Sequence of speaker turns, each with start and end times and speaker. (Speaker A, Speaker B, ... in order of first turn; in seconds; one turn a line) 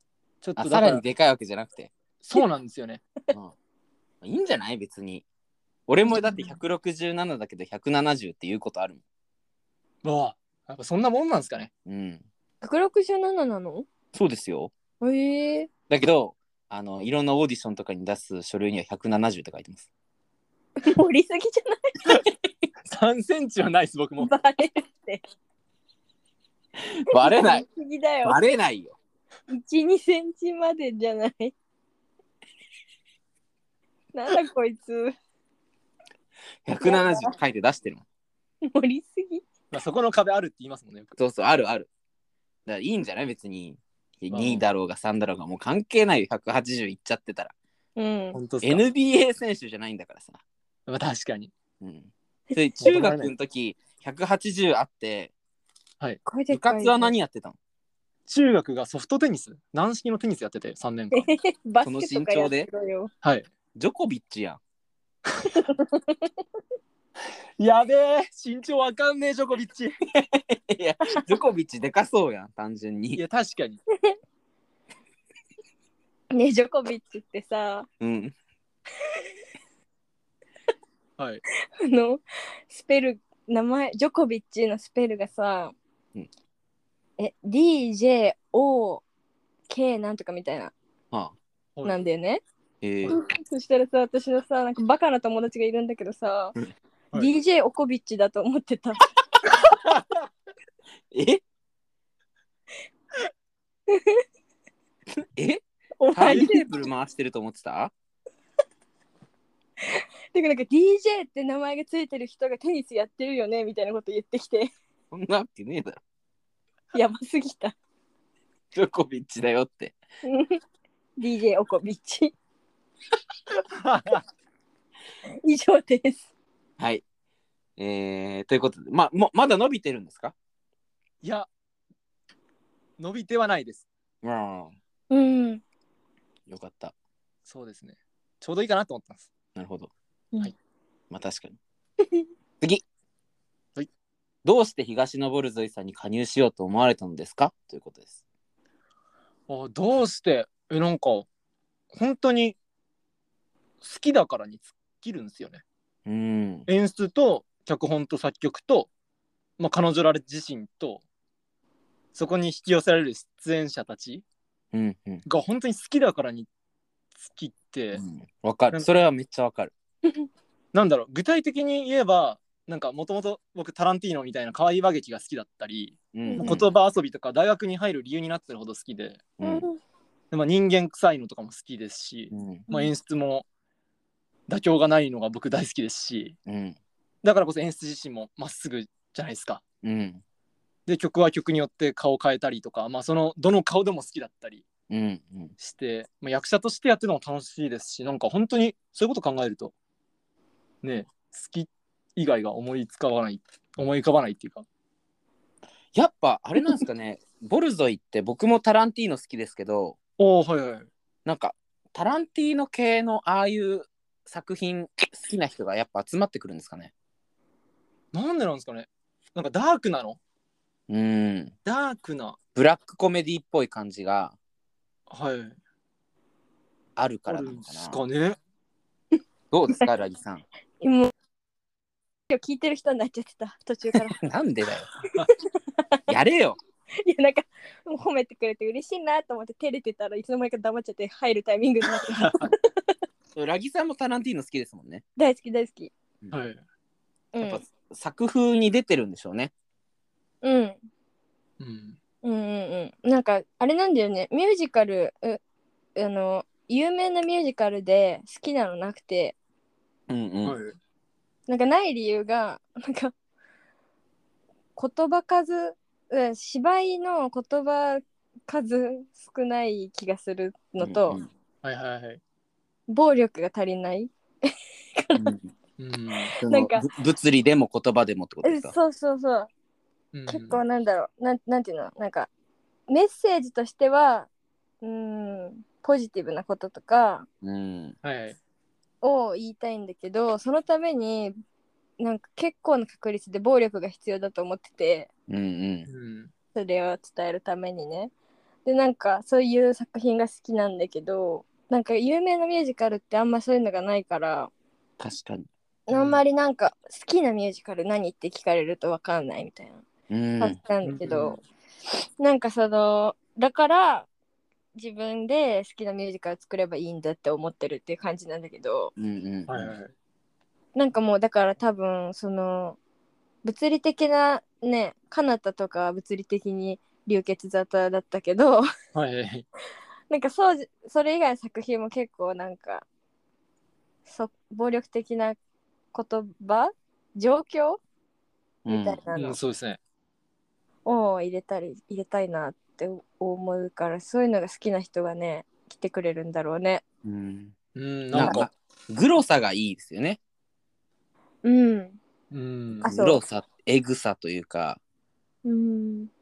Speaker A: 0.4-1.0
Speaker B: 0.6-1.9
Speaker A: 2.2-3.0
Speaker B: 4.2-5.2
Speaker B: 5.9-9.0
Speaker C: 6.1-6.5
Speaker A: 10.0-11.7
Speaker B: 11.9-12.2
Speaker C: 12.6-13.9
Speaker B: 14.1-14.7
Speaker C: 15.0-15.7
Speaker B: 15.9-19.9
Speaker C: 20.8-22.3
Speaker A: 22.8-24.3
Speaker C: 24.2-25.2
Speaker B: 26.9-27.6
Speaker C: 27.2-28.4
Speaker B: 28.2-29.0
Speaker C: 29.5-31.5
Speaker C: 34.1-35.1
Speaker B: 36.6-38.0
Speaker C: 36.8-37.3
Speaker C: 38.6-39.4
Speaker A: 39.7-41.2
Speaker B: 41.2-41.9
Speaker B: 42.7-47.5
Speaker A: 44.3-44.6
Speaker C: 48.0-48.4
Speaker A: 48.3-48.8
Speaker B: 48.6-50.4
Speaker A: 50.9-51.5
Speaker B: 51.8-55.3
Speaker A: 52.8-53.3
Speaker C: 56.2-57.1
Speaker B: 56.5-57.6
Speaker A: 58.3-61.3
Speaker C: 61.1-63.1
Speaker B: 61.8-62.7
Speaker A: 63.2-63.5
Speaker B: 63.8-64.6
Speaker C: 65.5-66.3
Speaker A: 67.6-70.0
Speaker B: 70.1-73.2
Speaker A: 73.2-73.8
Speaker C: 76.3-77.9
Speaker B: 78.0-78.3
Speaker C: 81.8-85.8
Speaker C: 87.2-89.0
Speaker C: 89.7-90.7
Speaker C: 91.8-92.4
Speaker B: 92.8-93.2
Speaker C: 93.1-96.5
Speaker C: 97.1-99.1
Speaker A: 99.8-100.2
Speaker B: 101.1-101.4
Speaker C: 103.9-104.2
Speaker B: 105.4-107.9
Speaker C: 106.0-106.7
Speaker C: 109.9-114.7
Speaker B: 115.1-116.0
Speaker C: 116.9-117.8
Speaker B: 118.7-120.0
Speaker C: 120.2-120.6
Speaker C: 121.2-122.3
Speaker A: 123.7-124.2
Speaker C: 125.4-126.3
Speaker B: 126.8-127.0
Speaker B: 127.8-130.3
Speaker A: 131.2-131.5
Speaker A: 133.0-133.9
Speaker B: 134.2-134.8
Speaker C: 135.1-135.6
Speaker B: 136.5-136.9
Speaker A: 137.5-139.3
Speaker B: 139.6-139.9
Speaker B: 141.1-141.6
Speaker B: 144.4-148.1
Speaker A: 149.5-151.3
Speaker A: 151.9-152.6
Speaker A: 153.8-155.6
Speaker B: 156.1-156.7
Speaker A: 156.7-158.9
Speaker A: 159.6-161.0
Speaker A: 162.2-164.2
Speaker B: 164.7-165.2
Speaker A: 165.3-166.5
Speaker A: 167.2-168.0
Speaker B: 167.9-169.7
Speaker A: 168.7-169.0
Speaker A: 170.7-179.3
Speaker B: 176.1-176.7
Speaker C: 176.3-176.6
Speaker B: 179.4-179.7
Speaker C: 179.4-179.8
Speaker A: 180.3-183.5
Speaker B: 182.3-182.7
Speaker A: 184.5-186.4
Speaker B: 186.5-186.8
Speaker A: 187.2-189.6
Speaker B: 189.8-190.2
Speaker A: 190.9-194.6
Speaker B: 194.9-195.5
Speaker A: 195.6-199.7
Speaker A: 200.8-204.7
Speaker B: 205.9-210.0
Speaker A: 210.2-210.9
Speaker B: 211.3-216.9
Speaker A: 218.1-220.2
Speaker B: 220.9-221.5
Speaker A: 221.7-222.4
Speaker B: 222.6-224.3
Speaker A: 225.1-225.6
Speaker B: 227.0-228.0
Speaker A: 227.3-228.4
Speaker B: 229.5-230.4
Speaker C: 230.8-231.1
Speaker C: 232.3-234.3
Speaker B: 234.2-234.9
Speaker B: 236.1-236.6
Speaker C: 237.0-243.0
Speaker A: 241.9-242.5
Speaker B: 243.3-245.0
Speaker C: 245.2-245.9
Speaker A: 246.3-246.6
Speaker C: 247.3-247.6
Speaker B: 247.4-249.5
Speaker C: 250.4-250.8
Speaker A: 251.6-252.0
Speaker C: 252.2-255.4
Speaker C: 256.0-259.4
Speaker B: 260.1-260.6
Speaker A: 260.4-260.8
Speaker C: 261.5-263.1
Speaker C: 264.8-271.2
Speaker B: 270.8-271.3
Speaker A: 271.6-272.2
Speaker C: 272.9-275.3
Speaker B: 275.1-275.5
Speaker A: 275.8-276.3
Speaker B: 276.4-278.7
Speaker C: 276.4-276.9
Speaker C: 278.4-279.5
Speaker A: 280.1-280.6
Speaker C: 280.3-282.3
Speaker C: 282.9-284.3
Speaker C: 284.8-287.3
Speaker B: 287.4-287.9
Speaker A: 288.0-288.4
Speaker C: 289.0-291.4
Speaker C: 292.0-295.1
Speaker B: 295.3-295.9
Speaker A: 295.9-296.3
Speaker C: 296.5-298.1
Speaker C: 298.6-304.5
Speaker B: 305.0-305.5
Speaker C: 305.9-309.8
Speaker A: 305.9-306.2
Speaker B: 310.1-310.6
Speaker C: 310.4-311.4
Speaker A: 310.8-311.4
Speaker C: 312.2-314.1
Speaker C: 314.8-318.9
Speaker B: 319.0-319.7
Speaker A: 319.5-319.9
Speaker C: 320.8-322.8
Speaker C: 323.4-328.7
Speaker A: 328.9-329.5
Speaker C: 330.1-332.9
Speaker C: 334.1-335.4
Speaker C: 335.9-337.8
Speaker B: 338.7-339.0
Speaker C: 338.7-339.4
Speaker A: 339.1-339.8
Speaker C: 340.9-346.8
Speaker B: 347.0-347.6
Speaker A: 347.8-348.5
Speaker B: 348.1-350.2
Speaker C: 351.4-352.0
Speaker A: 352.3-352.9
Speaker C: 352.8-353.2
Speaker B: 352.8-354.8
Speaker C: 355.4-356.1